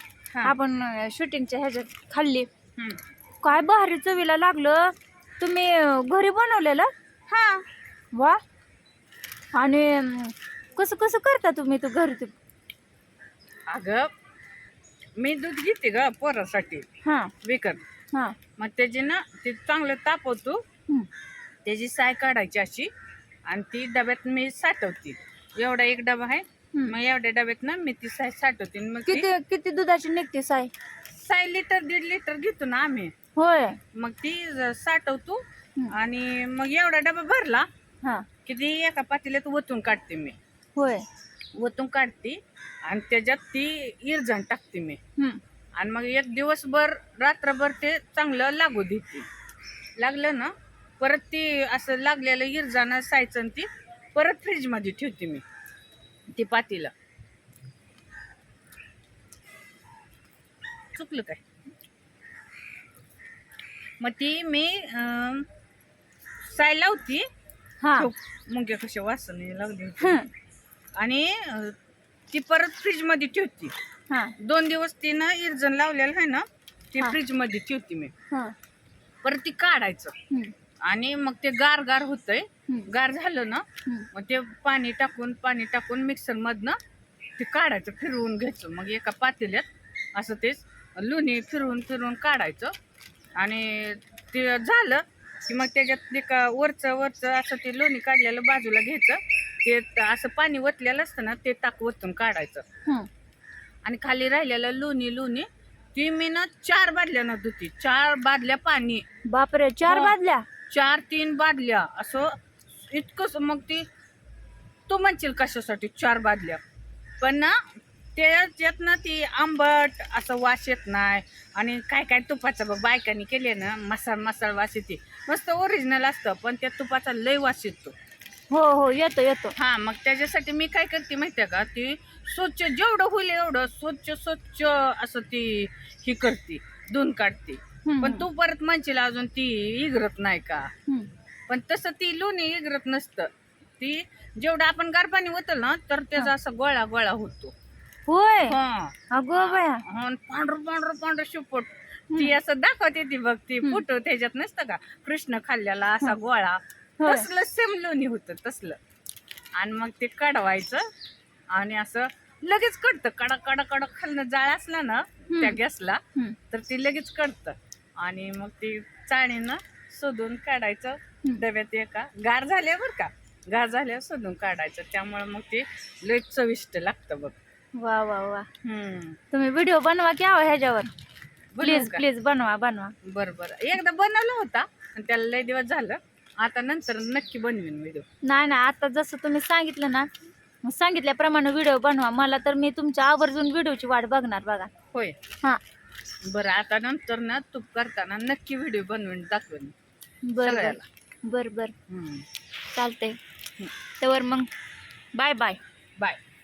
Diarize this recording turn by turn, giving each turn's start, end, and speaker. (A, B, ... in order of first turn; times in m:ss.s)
0:00.4-0:02.5 A
0:03.4-0:06.9 A
0:07.3-0:07.7 B
0:08.1-0:08.4 A
0:09.5-0:12.3 A
0:13.7-0:14.1 B
0:15.2-0:16.9 B
0:17.0-0:17.3 A
0:17.4-0:17.8 B
0:18.6-0:20.6 B
0:21.6-0:22.9 B
0:23.5-0:29.3 B
0:29.1-0:30.7 A
0:31.1-0:33.1 B
0:33.4-0:33.8 A
0:33.9-0:37.7 B
0:38.4-0:40.4 B
0:40.8-0:41.0 A
0:41.5-0:45.0 B
0:45.8-0:49.3 B
0:50.0-0:55.4 B
0:56.3-0:56.9 B
1:00.9-1:01.4 B
1:04.0-1:05.4 B
1:06.4-1:07.2 B
1:07.8-1:08.1 A
1:07.9-1:10.2 B
1:10.0-1:10.3 A
1:11.0-1:11.8 B
1:12.3-1:13.7 B
1:14.4-1:18.1 B
1:19.2-1:20.1 B
1:20.8-1:26.8 B
1:27.4-1:32.7 B
1:33.4-1:42.6 B
1:43.8-1:49.0 B
1:49.3-1:50.4 A
1:49.9-1:50.2 B
1:50.7-1:53.8 B
1:54.9-1:56.6 B
1:57.2-2:07.9 B
2:08.5-2:09.5 A
2:09.6-2:20.7 B
2:17.8-2:18.3 A
2:21.5-2:27.5 B
2:28.1-2:28.6 A
2:28.4-2:38.8 B
2:29.1-2:29.8 A
2:37.0-2:37.3 A
2:39.6-2:40.9 B
2:41.5-2:57.3 B
2:45.3-2:45.6 A
2:57.7-2:58.5 A
2:58.6-2:59.2 B
2:59.3-3:00.9 A
3:01.5-3:02.0 B
3:01.6-3:02.9 A
3:03.0-3:08.0 B
3:08.2-3:10.1 A
3:10.6-3:14.7 A
3:16.2-3:19.7 B
3:20.2-3:21.7 A
3:20.4-3:20.8 B
3:21.9-3:22.2 B
3:22.7-3:23.2 A
3:24.0-3:24.5 A
3:25.2-3:25.6 A